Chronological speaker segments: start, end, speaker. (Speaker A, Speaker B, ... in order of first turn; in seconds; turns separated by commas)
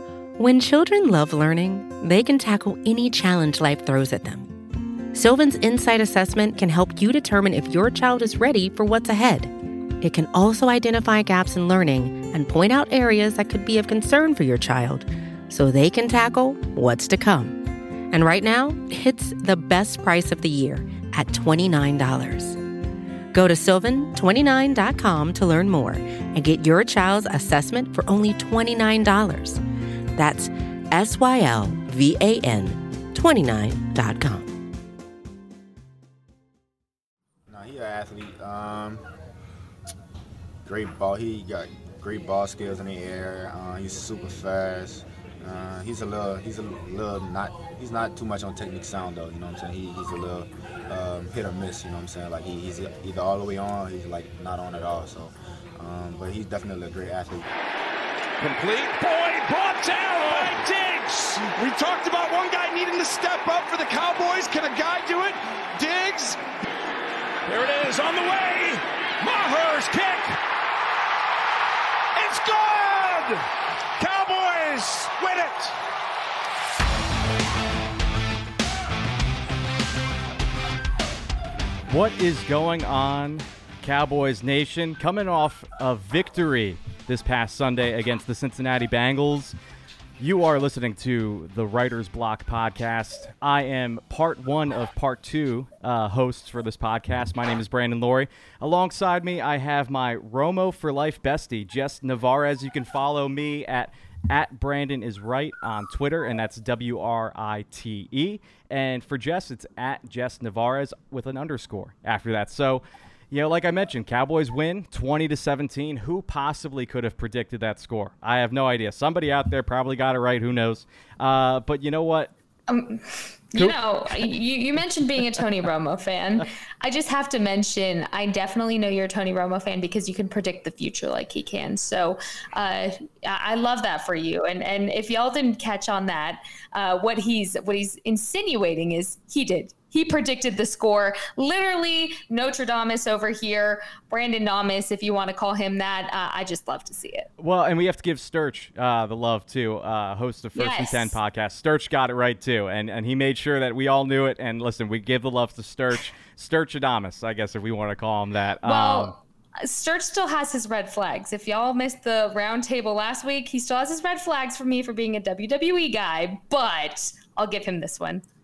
Speaker A: 0.4-4.5, Speaker A: 5.1-22.6, Speaker A: 23.3-29.6, Speaker A: 30.1-34.5, Speaker B: 37.5-39.0, Speaker B: 40.6-57.5, Speaker C: 58.4-66.4, Speaker C: 67.4-70.4, Speaker C: 72.2-73.4, Speaker C: 74.0-75.7, Speaker D: 81.9-89.5, Speaker D: 90.2-122.3, Speaker E: 122.7-147.3, Speaker D: 123.5-124.2, Speaker D: 147.4-159.1, Speaker E: 150.5-151.2, Speaker E: 158.6-168.2